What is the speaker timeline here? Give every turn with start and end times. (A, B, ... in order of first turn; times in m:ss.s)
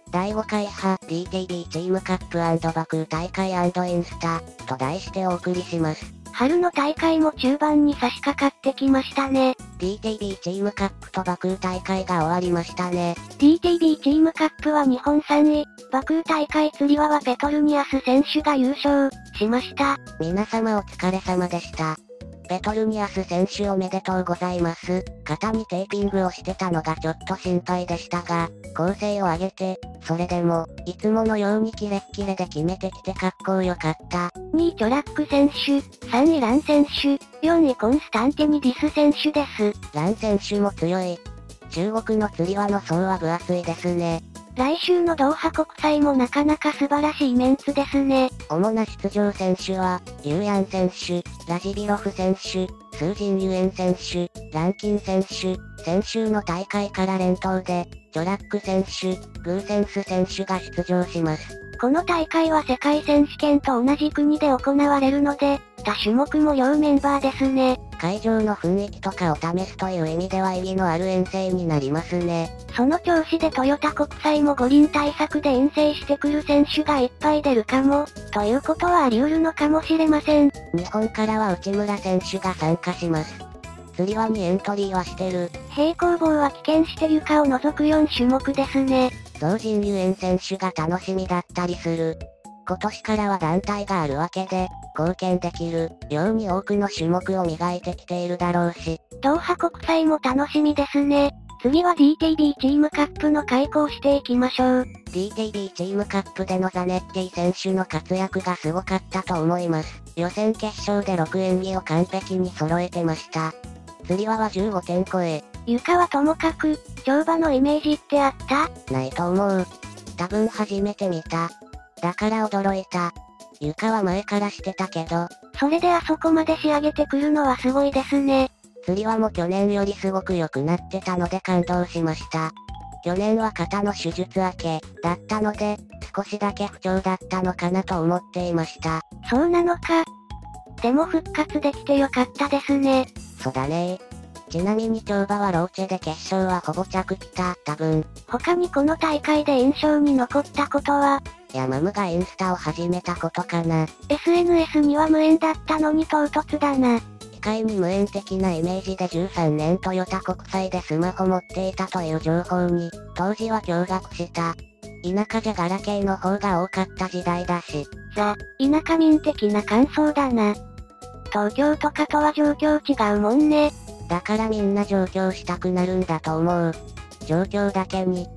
0:00.1-0:06.1 A
0:06.3-0:09.6 B
0:09.8-0:13.2 A
0:13.4-0:20.0 B
0:20.2-0:34.3 A
0:34.5-0:39.8 B
0:39.9-0:44.2 A
0:44.6-0:48.3 B
0:48.5-1:01.5 A
1:01.8-1:07.8 B
1:08.0-1:12.5 A
1:12.7-1:20.5 B
1:20.7-1:23.4 A
1:24.0-1:25.5 A
1:25.7-1:29.1 B
1:29.4-1:39.0 A
1:39.2-1:44.9 B
1:45.1-1:53.5 A
1:54.0-1:55.4 A
1:55.7-1:58.7 B
1:58.9-2:05.3 A
2:05.5-2:08.5 B
2:08.8-2:12.5 A
2:13.0-2:19.0 A
2:19.2-2:20.1 B
2:20.8-2:23.1 B
2:23.4-2:28.1 A
2:28.3-2:31.2 B
2:31.5-2:33.9 A
2:34.1-2:37.0 B
2:37.3-2:47.9 A
2:48.1-2:50.6 B
2:51.3-2:53.7 B
2:54.1-2:58.3 A